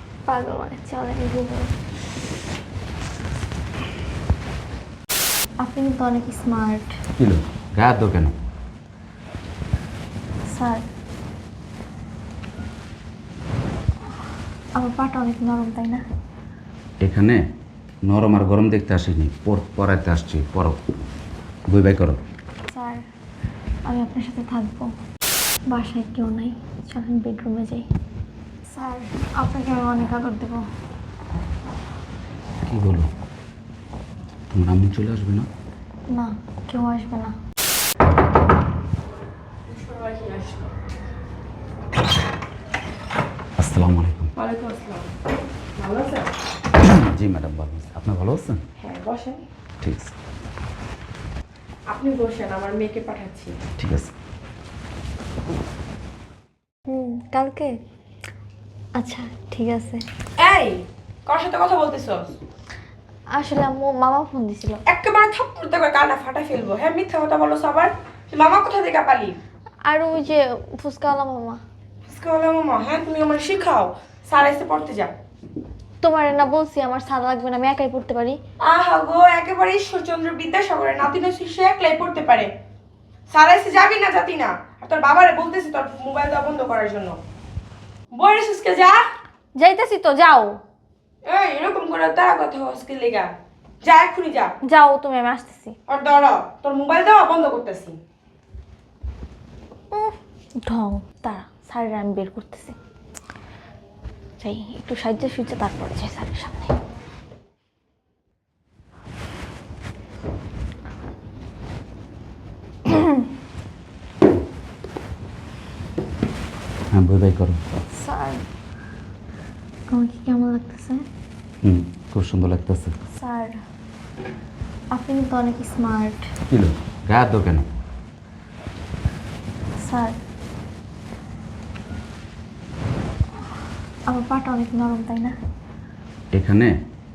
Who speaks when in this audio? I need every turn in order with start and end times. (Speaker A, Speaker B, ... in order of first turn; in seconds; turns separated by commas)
Speaker A: 0.3-1.7, Speaker A: 5.6-6.9, Speaker B: 7.2-8.3, Speaker A: 10.5-10.8, Speaker A: 14.8-16.0, Speaker B: 17.0-17.4, Speaker B: 18.1-20.8, Speaker B: 21.7-22.2, Speaker A: 22.7-23.0, Speaker A: 23.9-24.9, Speaker A: 25.7-27.9, Speaker A: 28.7-30.6, Speaker B: 32.7-33.1, Speaker B: 34.5-35.5, Speaker A: 36.1-37.3, Speaker C: 39.7-40.7, Speaker B: 43.6-44.3, Speaker C: 44.4-45.1, Speaker C: 45.8-46.3, Speaker B: 46.8-48.6, Speaker C: 48.8-49.4, Speaker B: 49.8-50.1, Speaker C: 51.9-53.6, Speaker B: 53.8-54.1, Speaker A: 56.9-57.8, Speaker A: 59.0-60.0, Speaker C: 60.4-62.4, Speaker A: 63.3-64.8, Speaker C: 64.9-69.4, Speaker A: 69.8-71.6, Speaker C: 72.1-75.1, Speaker A: 76.0-78.4, Speaker C: 78.6-82.5, Speaker C: 83.3-87.2, Speaker C: 88.1-89.0, Speaker A: 89.5-90.6, Speaker C: 91.3-94.5, Speaker A: 94.7-95.8, Speaker C: 95.9-98.0, Speaker A: 99.9-102.8, Speaker A: 104.4-106.8, Speaker A: 112.9-113.2, Speaker B: 116.9-117.6, Speaker A: 117.9-118.5, Speaker A: 119.9-121.0, Speaker B: 121.6-123.0, Speaker A: 123.1-123.6, Speaker A: 124.9-126.2, Speaker B: 126.5-127.7, Speaker A: 129.8-130.2, Speaker A: 134.1-135.4, Speaker B: 136.3-136.7